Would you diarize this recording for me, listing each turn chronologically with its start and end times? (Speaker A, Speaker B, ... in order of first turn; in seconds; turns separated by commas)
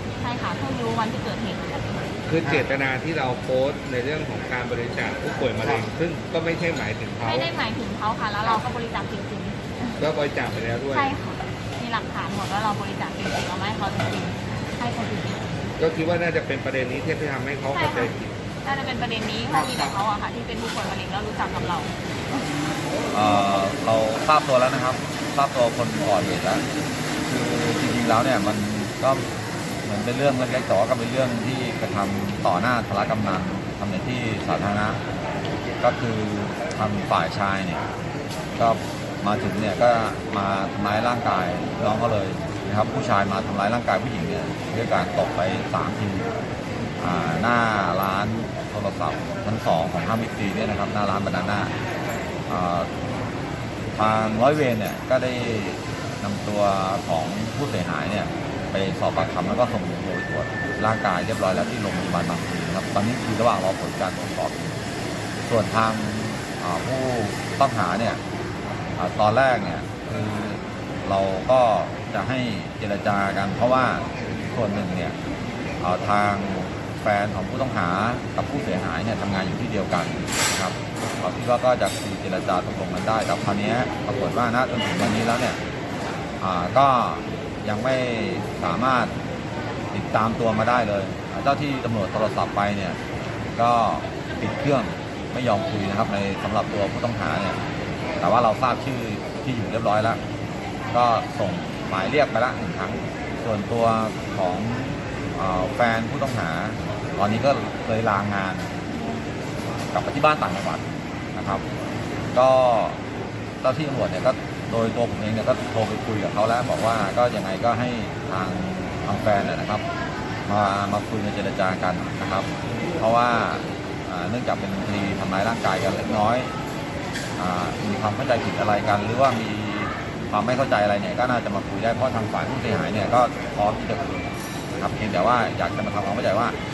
Speaker A: 0.2-2.0, Speaker B: 2.3-7.5, Speaker A: 7.2-9.9, Speaker B: 10.0-11.1, Speaker A: 10.9-15.5, Speaker B: 15.8-18.3, Speaker A: 17.7-22.4, Speaker C: 19.5-19.9, Speaker C: 23.1-26.7, Speaker C: 27.2-29.3, Speaker C: 29.8-35.0, Speaker C: 35.8-37.9, Speaker C: 38.6-46.3, Speaker C: 47.0-51.8, Speaker C: 52.5-52.9, Speaker C: 54.0-64.8, Speaker C: 65.4-68.2, Speaker C: 69.0-75.2, Speaker C: 75.8-85.6, Speaker C: 86.4-89.2, Speaker C: 89.9-93.0, Speaker C: 93.6-97.6, Speaker C: 98.2-100.2, Speaker C: 100.9-108.7, Speaker C: 109.9-111.7, Speaker C: 112.3-113.0, Speaker C: 113.6-119.8, Speaker C: 120.5-126.5, Speaker C: 127.4-136.6